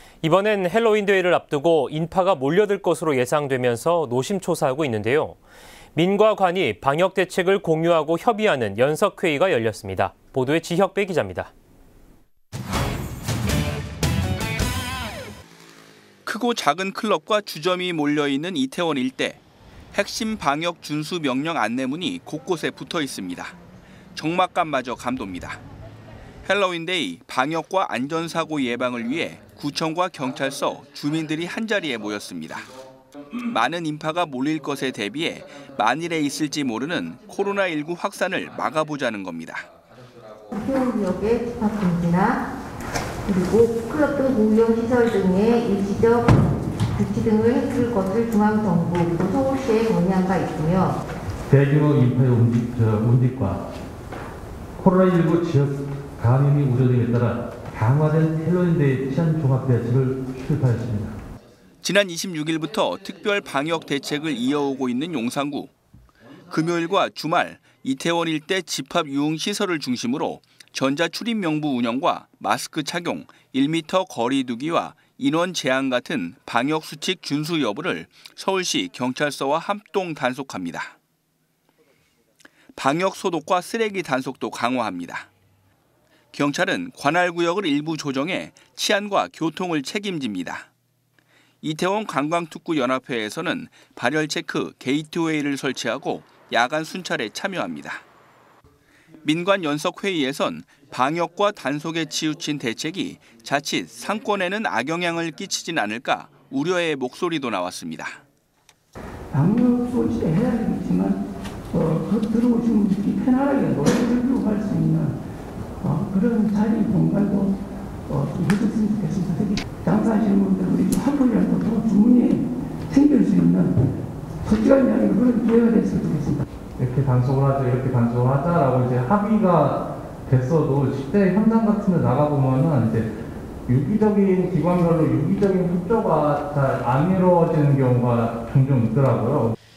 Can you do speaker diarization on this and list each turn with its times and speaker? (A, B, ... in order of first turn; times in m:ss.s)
0:00.2-0:05.4 A
0:06.0-0:11.5 A
0:16.2-0:19.4 B
0:19.9-0:23.6 B
0:24.1-0:25.6 B
0:26.4-0:32.7 B
0:33.4-0:39.7 B
0:40.5-0:42.4 C
0:43.3-0:51.0 C
0:51.5-0:53.6 D
0:54.8-1:01.2 D
1:01.8-1:05.7 B
1:06.5-1:20.9 B
1:22.8-1:25.3 B
1:26.3-1:30.7 B
1:31.6-1:38.0 B
1:39.2-1:48.2 B
1:49.3-1:55.2 E
1:55.8-2:03.9 E
2:04.4-2:06.4 E
2:06.8-2:13.1 D
2:13.7-2:19.6 D